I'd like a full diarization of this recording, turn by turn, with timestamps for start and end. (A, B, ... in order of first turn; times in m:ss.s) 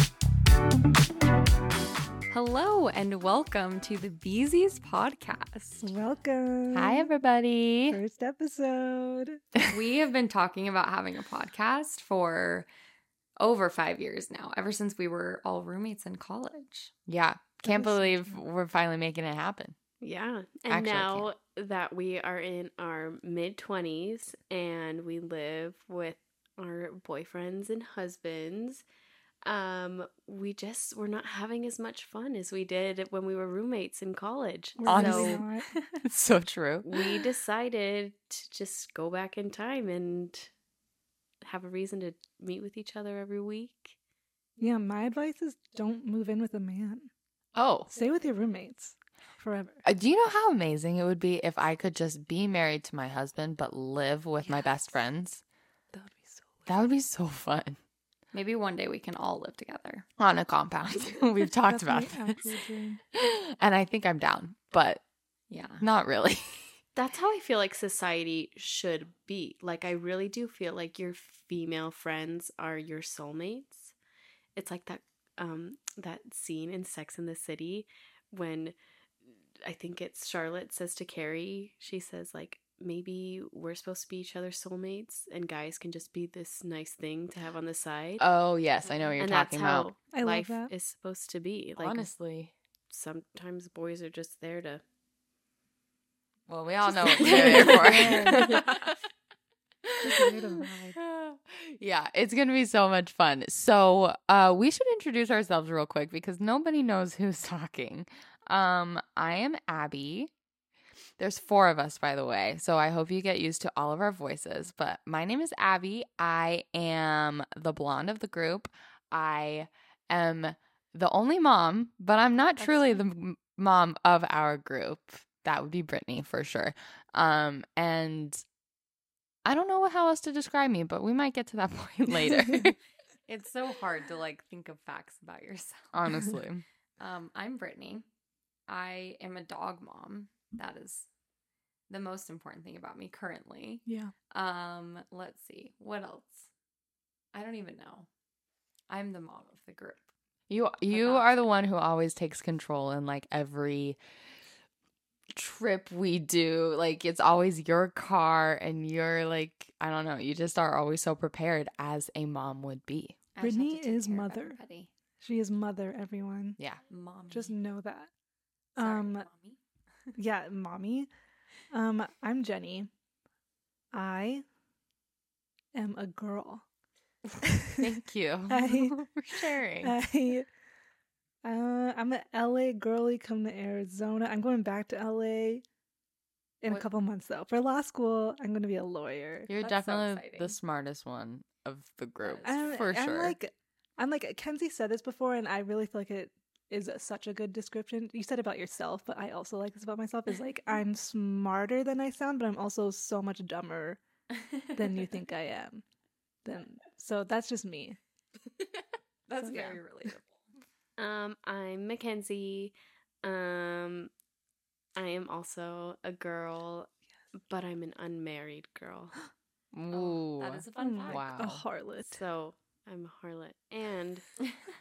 0:02.3-0:05.9 A
0:05.8-0:07.1 B
0:06.7-0:08.0 C
0:07.9-0:09.4 B
0:09.7-0:12.7 A
0:13.4-0:16.9 A
0:17.1-0:19.7 C
0:17.6-0:18.4 B
0:20.0-0:28.8 D
0:20.7-0:21.3 C
0:29.4-0:35.4 D
0:34.8-0:35.8 B
0:34.8-0:35.4 C
0:36.0-0:37.2 C
0:36.8-0:40.5 D
0:41.4-0:44.0 D
0:44.6-0:47.1 B
0:47.5-0:47.9 C
0:47.9-0:49.8 B
0:49.8-0:55.4 C
0:54.5-0:54.8 B
0:55.9-0:56.8 B
0:56.7-0:57.8 C
0:58.3-1:00.0 A
1:00.2-1:02.6 C
1:01.6-1:03.0 B
1:03.1-1:05.0 C
1:05.5-1:05.8 A
1:05.8-1:06.7 C
1:06.9-1:13.9 D
1:14.6-1:18.8 D
1:19.6-1:28.2 D
1:28.2-1:29.9 C
1:29.2-1:32.1 D
1:30.1-1:30.7 B
1:31.8-1:32.5 C
1:32.9-1:34.8 D
1:36.5-1:38.9 C
1:36.9-1:38.6 D
1:37.0-1:38.6 B
1:39.9-1:40.4 C
1:40.0-1:40.9 B
1:40.6-1:40.9 A
1:40.9-1:50.3 C
1:51.2-2:08.4 C
2:09.4-2:12.8 C
2:13.3-2:16.2 A
2:15.9-2:16.6 C
2:17.0-2:18.0 A
2:18.7-2:21.1 A
2:21.9-2:26.5 A
2:23.8-2:24.1 B
2:27.3-2:28.1 A
2:28.9-2:30.1 A
2:30.5-2:34.0 C
2:30.9-2:31.3 A
2:35.3-2:43.2 C
2:43.3-2:44.9 A
2:43.4-2:44.6 B
2:45.2-2:46.6 B
2:46.6-2:46.8 C
2:46.9-2:47.6 A
2:47.3-2:48.1 B
2:48.8-2:49.3 B
2:48.8-2:49.6 A
2:50.2-2:51.1 B
2:51.7-2:52.9 B
2:53.9-2:54.4 B
2:55.7-2:56.6 B
2:57.6-2:57.9 B
2:57.8-2:59.9 C
2:58.5-3:00.5 B
3:01.4-3:05.6 B
3:06.6-3:09.5 B
3:09.5-3:13.4 C
3:09.6-3:10.6 A
3:12.2-3:12.8 A
3:12.4-3:24.0 B
3:24.5-3:25.1 A
3:24.7-3:25.8 B
3:26.4-3:28.0 B
3:29.3-3:30.5 A
3:29.5-3:29.8 C
3:31.0-3:34.1 D
3:35.0-3:39.2 D
3:39.7-3:41.6 C
3:39.9-3:41.3 A
3:40.8-3:42.2 B
3:42.1-3:44.3 D